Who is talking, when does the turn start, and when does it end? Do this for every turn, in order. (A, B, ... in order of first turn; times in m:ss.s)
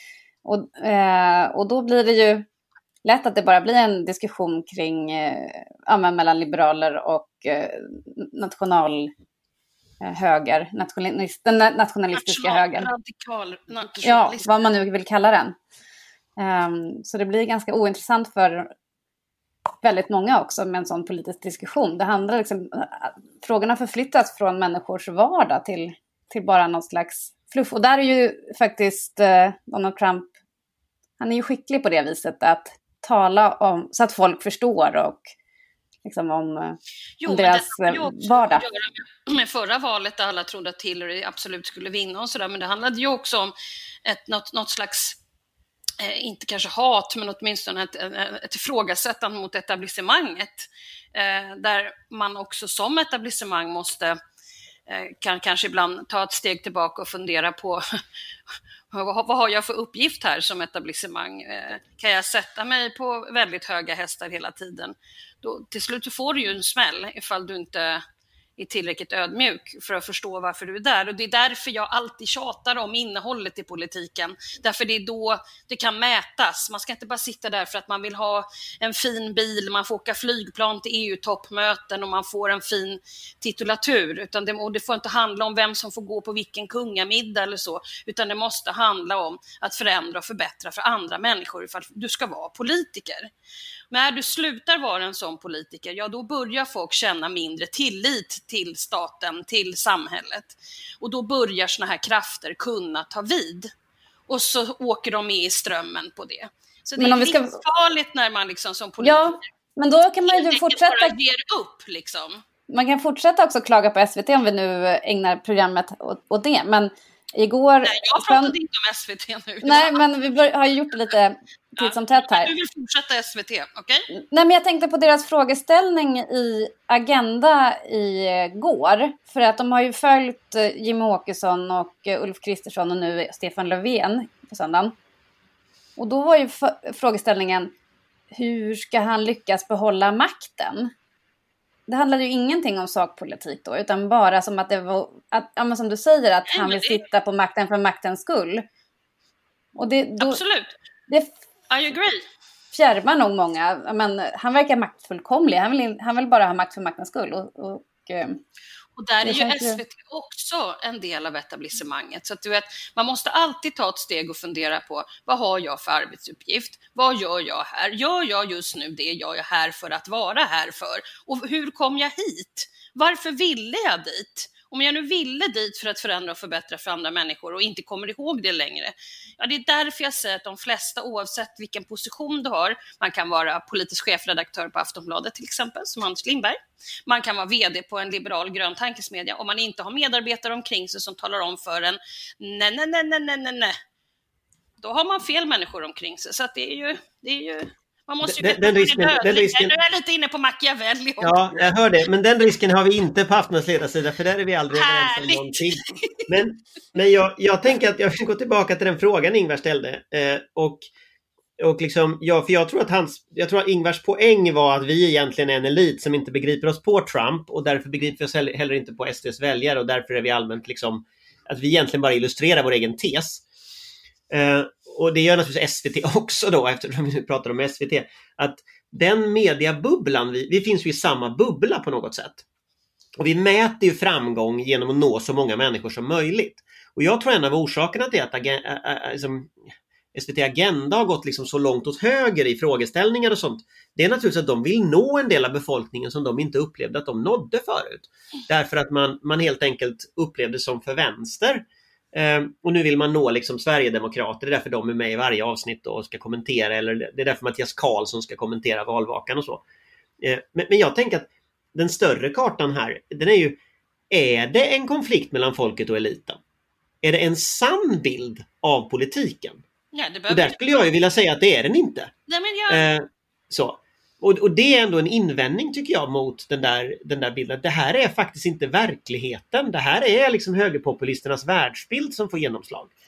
0:00.4-0:02.4 A
0:03.0-0:09.1 A
0:10.0-0:12.9 A
0:12.1-0:14.6 B
0:14.0-0:15.5 A
0:16.4-0:18.7 A
0:19.8-0:30.3 A
0:31.2-0:35.3 A
0:36.0-0:38.6 A
0:37.2-0:43.5 B
0:44.0-0:45.2 B
0:46.0-0:54.1 B
0:54.9-0:57.8 B
0:58.9-1:08.0 B
1:08.6-1:33.3 B
1:33.9-1:43.7 B
1:44.3-1:49.4 B
1:47.0-1:47.6 A
1:49.0-1:51.2 A
1:50.3-1:52.4 B
1:52.7-1:58.5 A
1:57.8-2:00.0 B
1:59.6-2:02.5 A
2:01.8-2:04.1 B
2:04.1-2:14.9 A
2:16.0-2:17.7 A
2:18.3-2:20.9 A
2:21.9-2:28.6 A
2:26.5-2:27.0 B
2:29.8-2:30.4 A
2:30.2-2:30.7 B
2:31.7-2:32.2 B
2:32.7-2:38.4 A
2:39.0-3:13.8 B
2:39.2-2:39.8 A
3:14.8-3:21.6 B
3:18.2-3:19.7 C
3:21.2-3:30.9 C
3:24.7-3:26.2 B
3:31.6-3:43.4 C
3:44.3-3:52.4 C
3:53.2-3:59.5 C
4:00.1-4:19.6 C
4:20.2-4:23.6 C
4:24.1-4:26.4 C
4:27.0-4:29.6 C
4:29.9-4:30.9 B
4:30.3-4:32.1 C
4:32.3-4:32.8 B
4:32.7-4:42.9 C